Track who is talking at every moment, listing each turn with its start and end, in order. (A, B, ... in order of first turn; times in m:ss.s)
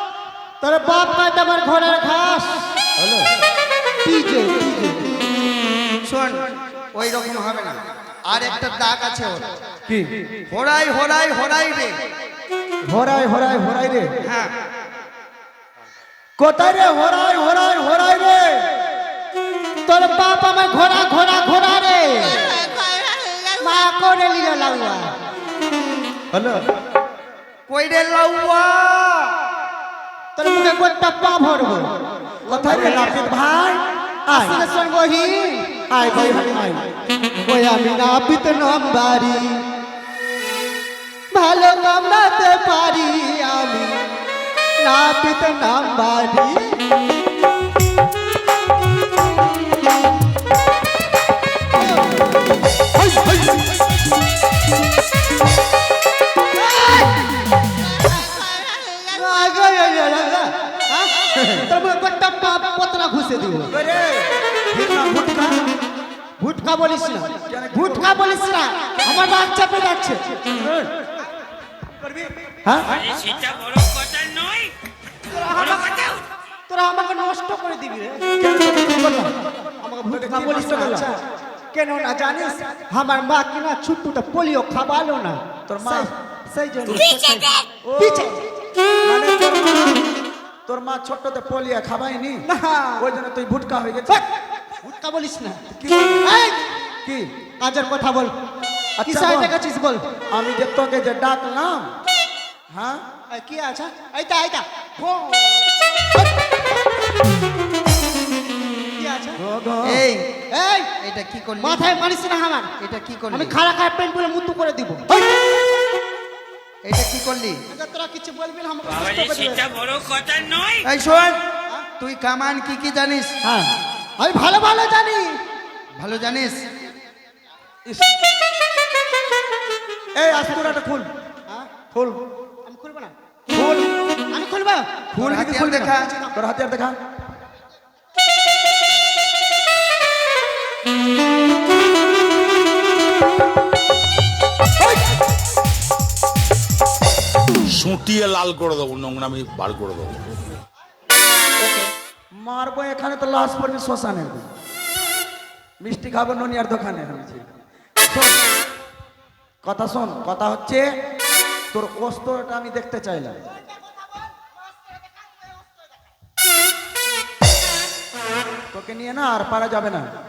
0:00.6-0:02.7 A
0:04.0-0:05.0 A
0:06.1-0:09.5 B
0:09.9-0:10.3 C
0:10.5-0:12.0 B
0:12.9-0:14.1 C
0:14.3-0:14.5 B
0:16.4-0:18.7 C
0:19.9-0:22.7 A
0:23.6-0:25.1 A
0:26.3-0:26.6 C
0:27.7-0:29.4 B
0:30.4-0:33.3 A
0:32.5-0:34.7 C
0:34.3-0:35.8 A
0:35.9-0:36.8 C
0:37.4-0:39.6 A
0:41.3-0:44.0 A
0:44.8-0:46.8 A
0:56.8-0:57.1 A
0:59.0-1:03.7 A
1:01.4-1:01.6 C
1:03.7-1:05.7 C
1:06.4-1:10.4 A
1:07.4-1:08.1 C
1:10.6-1:10.9 C
1:12.0-1:13.4 C
1:12.9-1:14.7 D
1:15.3-1:18.2 A
1:18.4-1:19.3 C
1:19.0-1:28.4 A
1:20.1-1:21.1 C
1:25.7-1:26.1 C
1:27.8-1:28.3 C
1:29.0-1:30.0 C
1:30.7-1:32.4 C
1:32.5-1:33.1 A
1:33.0-1:34.2 C
1:34.1-1:35.6 A
1:35.7-1:36.3 C
1:36.2-1:36.7 A
1:37.6-1:38.3 A
1:39.0-1:39.6 C
1:39.0-1:40.0 A
1:40.3-1:41.9 C
1:42.7-1:43.0 C
1:43.3-1:46.5 A
1:49.0-1:49.4 A
1:49.4-1:50.0 C
1:49.8-1:50.3 B
1:50.5-1:50.9 A
1:51.0-1:51.9 B
1:51.6-1:52.7 A
1:52.8-1:53.6 B
1:53.3-1:55.1 A
1:56.8-1:57.6 B
1:57.7-1:59.9 A
1:59.4-2:00.8 D
2:00.8-2:01.4 B
2:02.0-2:03.4 B
2:03.4-2:03.7 C
2:04.2-2:05.4 A
2:06.0-2:06.6 B
2:10.2-2:11.1 C
2:11.9-2:12.2 C
2:12.6-2:13.1 A
2:13.5-2:13.9 C
2:14.3-2:15.0 A
2:15.1-2:17.0 C
2:15.2-2:16.1 B
2:16.0-2:16.3 A
2:27.7-2:30.3 E
2:32.4-2:34.5 C
2:35.8-2:37.4 C
2:38.1-2:38.4 C
2:39.6-2:40.9 C
2:41.7-2:43.4 C
2:43.6-2:45.5 A
2:48.7-2:50.1 C